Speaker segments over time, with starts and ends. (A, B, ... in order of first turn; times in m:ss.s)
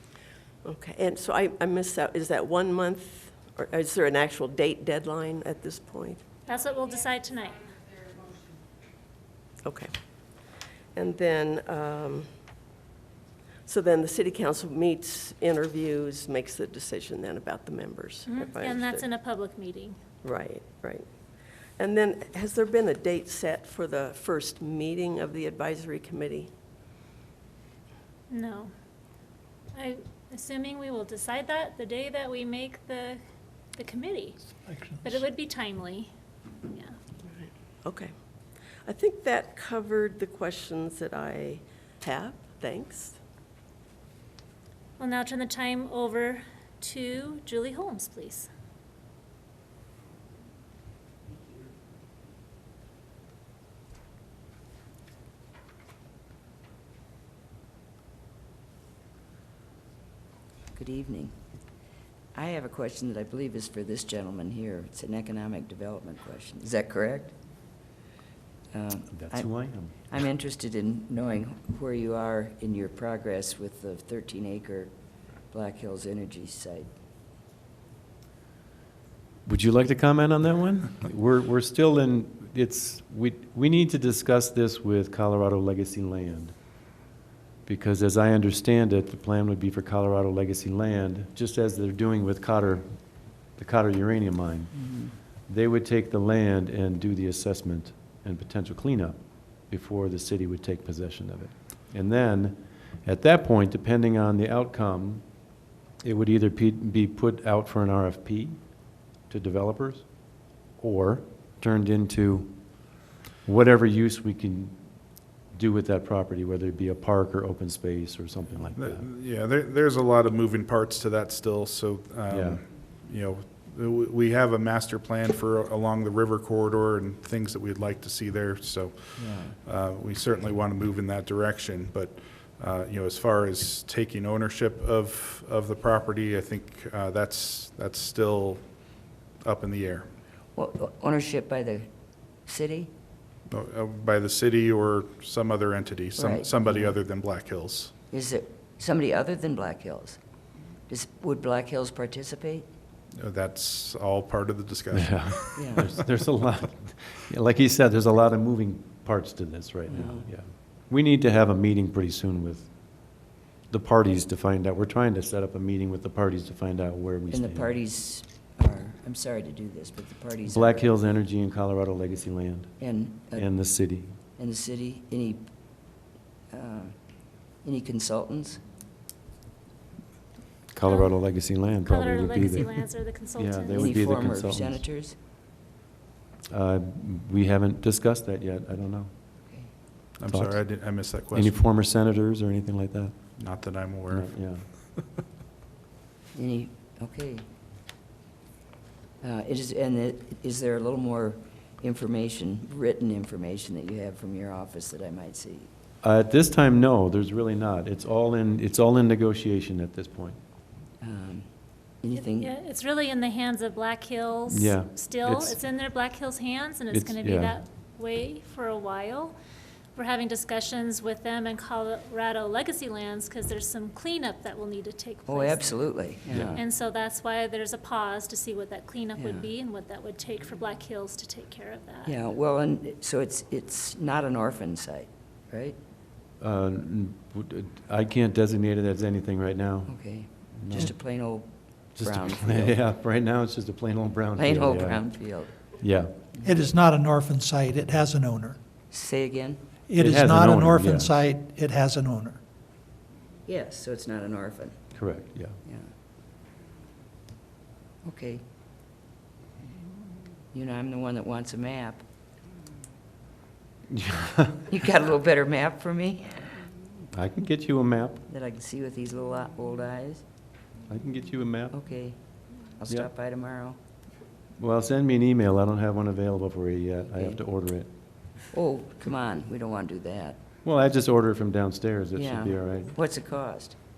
0:00.6-0:06.2 A
0:06.4-0:07.7 B
0:09.6-0:12.3 A
0:13.6-0:19.1 A
0:18.2-0:20.0 B
0:20.2-0:26.5 A
0:28.3-0:28.7 B
0:29.7-0:33.2 B
0:33.7-0:34.4 B
0:34.7-0:35.2 C
0:35.0-0:36.1 B
0:36.6-0:37.0 B
0:37.3-0:38.1 A
0:38.8-0:43.2 A
0:45.0-0:48.5 B
1:00.7-1:01.3 D
1:02.3-1:07.3 D
1:08.7-1:09.5 D
1:09.2-1:09.9 E
1:10.1-1:14.9 D
1:15.5-1:16.9 D
1:19.4-1:26.5 E
1:27.6-1:34.9 E
1:34.8-1:35.1 D
1:35.4-1:45.2 E
1:46.0-1:48.6 E
1:49.2-1:50.1 E
1:50.8-1:54.8 E
1:55.3-1:59.0 E
1:58.8-2:20.1 F
2:02.3-2:02.6 E
2:09.2-2:09.6 D
2:20.6-2:21.8 D
2:22.4-2:22.9 D
2:23.5-2:27.9 F
2:26.2-2:26.9 D
2:28.1-2:30.2 D
2:30.9-2:32.7 D
2:33.2-2:35.9 F
2:34.9-2:47.8 E
2:35.6-2:35.9 D
2:39.9-2:40.3 D
2:47.3-2:50.9 D
2:50.5-2:54.1 E
2:52.8-2:53.5 D
2:54.4-2:55.5 D
2:56.5-2:56.9 D
2:57.6-2:58.6 D
3:00.7-3:04.8 E
3:00.8-3:01.1 B
3:01.8-3:04.0 B
3:03.7-3:05.1 D
3:06.5-3:09.1 E
3:10.2-3:11.6 F
3:10.3-3:10.6 E
3:11.3-3:13.1 E
3:13.4-3:14.3 F
3:14.1-3:14.6 E
3:16.3-3:17.4 D
3:19.2-3:25.7 D
3:26.0-3:30.4 E
3:31.0-3:31.5 D
3:32.0-3:32.5 D
3:32.2-3:39.3 B
3:34.5-3:35.6 E
3:36.9-3:37.5 E
3:39.9-3:52.1 B
3:45.3-3:46.6 D
3:46.3-3:46.6 E
3:49.2-3:49.5 D
3:52.0-3:55.8 D
3:56.4-4:00.9 E
3:59.9-4:02.8 D
4:02.0-4:05.2 E
4:04.4-4:05.6 D
4:05.7-4:06.1 E
4:06.4-4:08.6 C
4:08.9-4:09.6 D
4:09.9-4:12.4 C
4:10.0-4:11.2 E
4:13.4-4:14.9 D
4:15.0-4:15.5 E
4:15.6-4:15.9 D
4:18.0-4:18.4 D
4:20.5-4:22.0 D
4:23.9-4:24.6 E
4:24.7-4:26.6 D
4:27.1-4:28.2 E
4:28.3-4:30.2 D
4:30.9-4:31.7 E
4:31.7-4:32.2 D
4:32.7-4:33.8 D
4:34.6-4:37.9 E
4:38.5-4:40.4 D
4:40.6-4:42.9 E
4:42.1-4:43.8 D